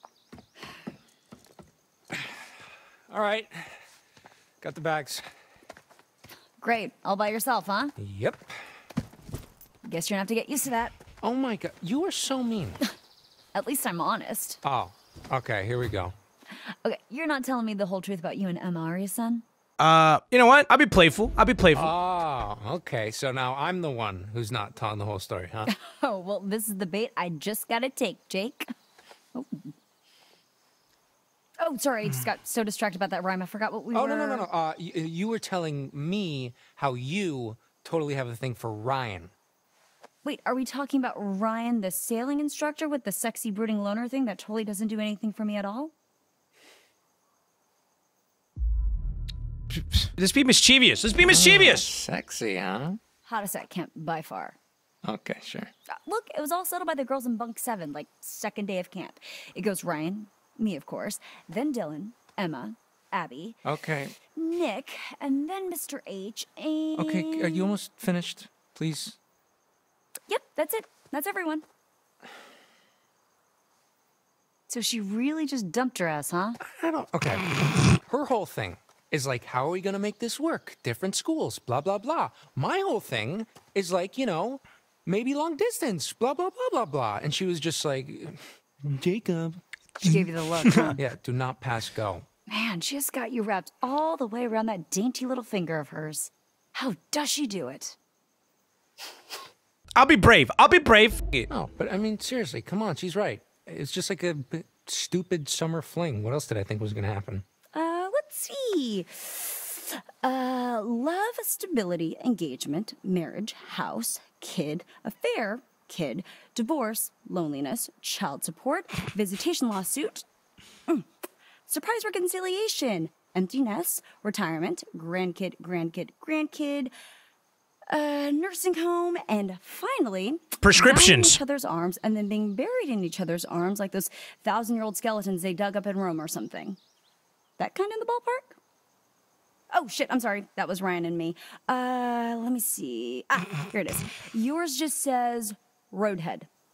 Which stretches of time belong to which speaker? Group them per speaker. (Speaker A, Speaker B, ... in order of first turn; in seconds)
Speaker A: 3.1-3.7, 4.6-5.2, 8.0-8.5, 11.2-12.8, 14.6-16.1, 21.8-25.7, 33.9-39.3, 51.3-53.0, 55.0-55.7, 63.7-64.2, 67.0-69.2, 76.6-88.4, 91.0-92.3, 101.5-107.5
Speaker B: 6.6-8.0, 9.8-11.0, 13.5-14.6, 16.5-19.4, 25.7-28.7, 29.3-29.7, 31.6-34.5, 40.2-45.9, 53.2-54.6, 56.0-63.6, 64.3-67.8, 70.3-71.7, 74.7-76.6, 90.0-91.0, 92.5-98.0, 107.7-120.2, 121.7-126.9, 127.9-136.8, 137.6-138.6, 139.7-146.5
Speaker C: 19.8-21.9, 49.7-51.9, 89.0-89.6, 100.0-101.5, 130.6-131.4